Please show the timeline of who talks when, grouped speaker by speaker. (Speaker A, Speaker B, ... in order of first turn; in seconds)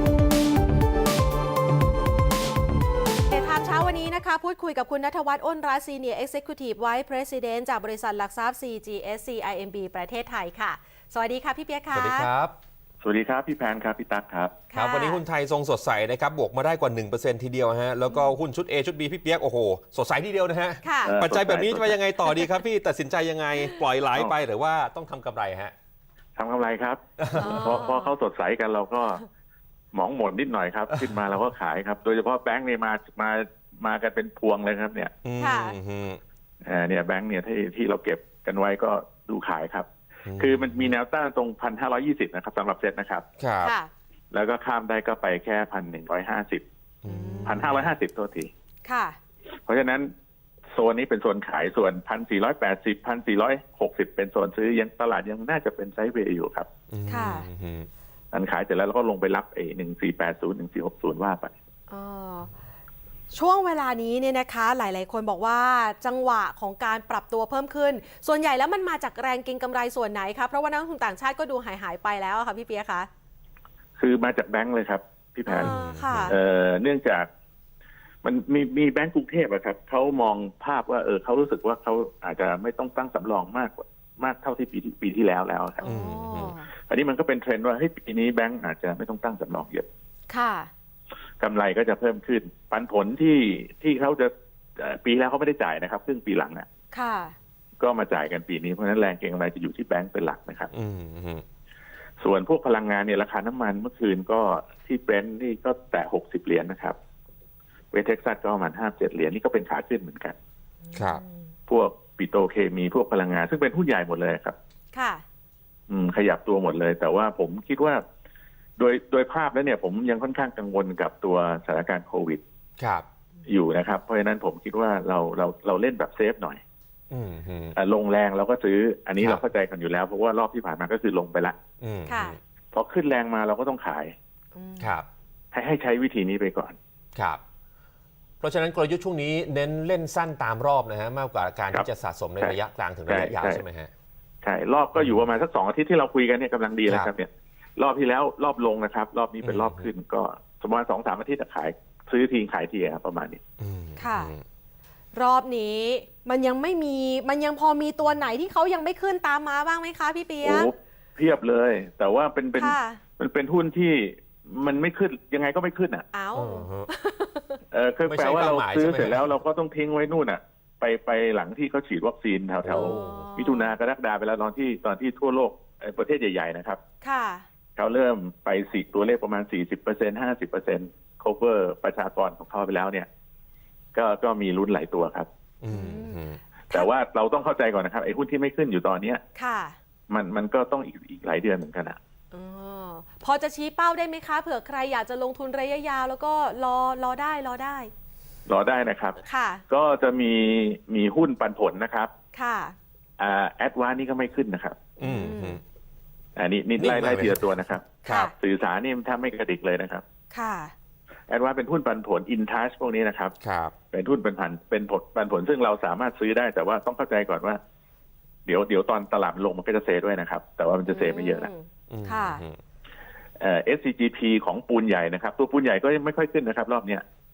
Speaker A: 3.3-12.3, 14.7-15.2, 18.1-18.4, 20.8-21.1, 22.3-22.6, 27.4-28.1, 35.4-35.8, 43.6-43.9, 47.0-47.6, 48.9-49.2, 57.1-57.5, 61.9-62.5, 63.3-73.1, 75.5-76.4, 85.8-86.7, 90.3-90.7, 96.9-97.3, 110.9-111.5, 114.9-115.2, 132.1-132.4, 134.6-135.0, 154.0-154.3, 155.2-160.7, 162.6-163.0, 166.1-167.6, 172.7-173.8, 177.0-177.5, 185.7-186.9, 189.4-189.8, 192.3-197.9, 199.2-199.6, 202.3-202.8, 205.0-205.6, 208.1-208.3, 210.3-210.7, 220.9-222.4
Speaker B: 11.9-12.6, 14.7-25.7, 27.2-27.8, 30.9-31.3, 35.2-36.2, 40.3-41.0, 43.4-43.7, 47.0-47.9, 56.9-57.9, 75.6-76.3, 85.8-86.6, 100.7-101.4, 111.0-111.2, 122.8-123.1, 127.1-127.8, 131.8-132.4, 134.8-135.1, 137.2-137.4, 138.4-143.9, 145.0-145.3, 146.9-147.1, 149.4-149.9, 153.6-154.4, 166.3-166.9, 168.1-169.3, 172.6-173.3, 185.6-186.4, 205.0-205.6, 206.8-208.3, 213.4-213.7, 221.9-222.6
Speaker C: 13.0-14.6, 21.0-22.0, 26.4-29.2, 29.9-35.1, 36.6-43.3, 44.3-46.6, 47.5-48.5, 49.7-50.1, 50.7-56.7, 58.3-61.5, 74.0-77.3, 78.2-85.9, 86.9-89.9, 91.4-96.7, 97.8-100.7, 102.2-107.0, 107.9-110.4, 111.7-114.6, 115.9-118.0, 118.8-122.4, 123.5-126.6, 127.8-131.6, 132.7-134.1, 135.5-136.8, 142.4-143.6, 144.4-153.4, 160.4-166.1, 167.7-176.8, 177.8-183.1, 183.9-185.3, 186.7-189.2, 190.1-192.0, 198.5-202.1, 203.2-204.9, 206.4-210.1, 211.3-213.3, 213.9-217.6, 218.5-221.5, 223.4-227.1